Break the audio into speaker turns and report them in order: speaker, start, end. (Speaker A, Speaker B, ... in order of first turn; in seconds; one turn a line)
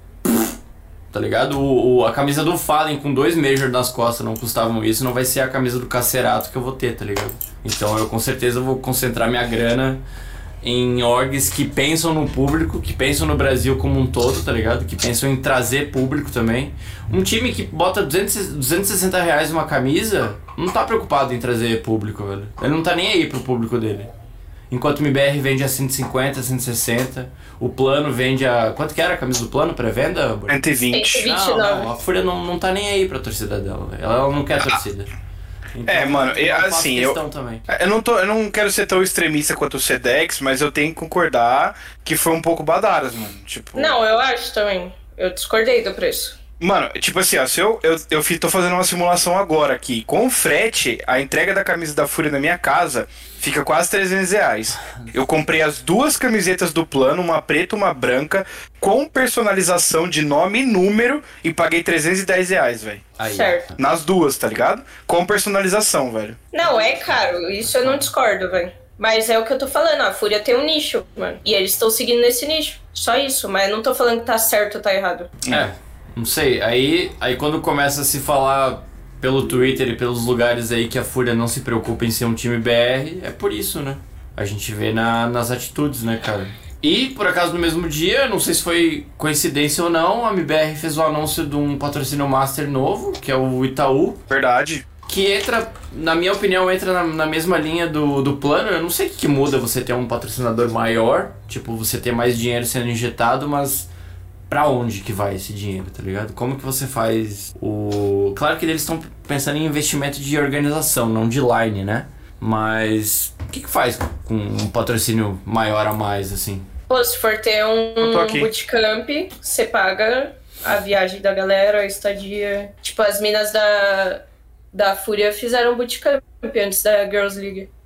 Speaker A: 0.2-0.5
Speaker A: 1.1-10.0
Speaker A: 10.6-24.1
Speaker A: 24.7-30.6
Speaker B: 30.5-31.3
Speaker C: 30.9-31.9
Speaker A: 31.2-35.1
Speaker A: 35.7-37.6
Speaker B: 35.9-44.0
Speaker C: 43.8-46.4
Speaker B: 46.6-63.1
Speaker A: 54.9-55.1
Speaker A: 63.2-63.8
Speaker C: 63.2-63.7
Speaker B: 63.8-66.4
Speaker C: 66.5-75.3
Speaker A: 66.6-68.1
Speaker B: 75.4-75.7
Speaker A: 75.5-94.2
Speaker B: 94.3-94.8
Speaker A: 95.1-103.9
Speaker A: 104.5-116.7
Speaker C: 116.9-127.7
Speaker B: 118.0-118.5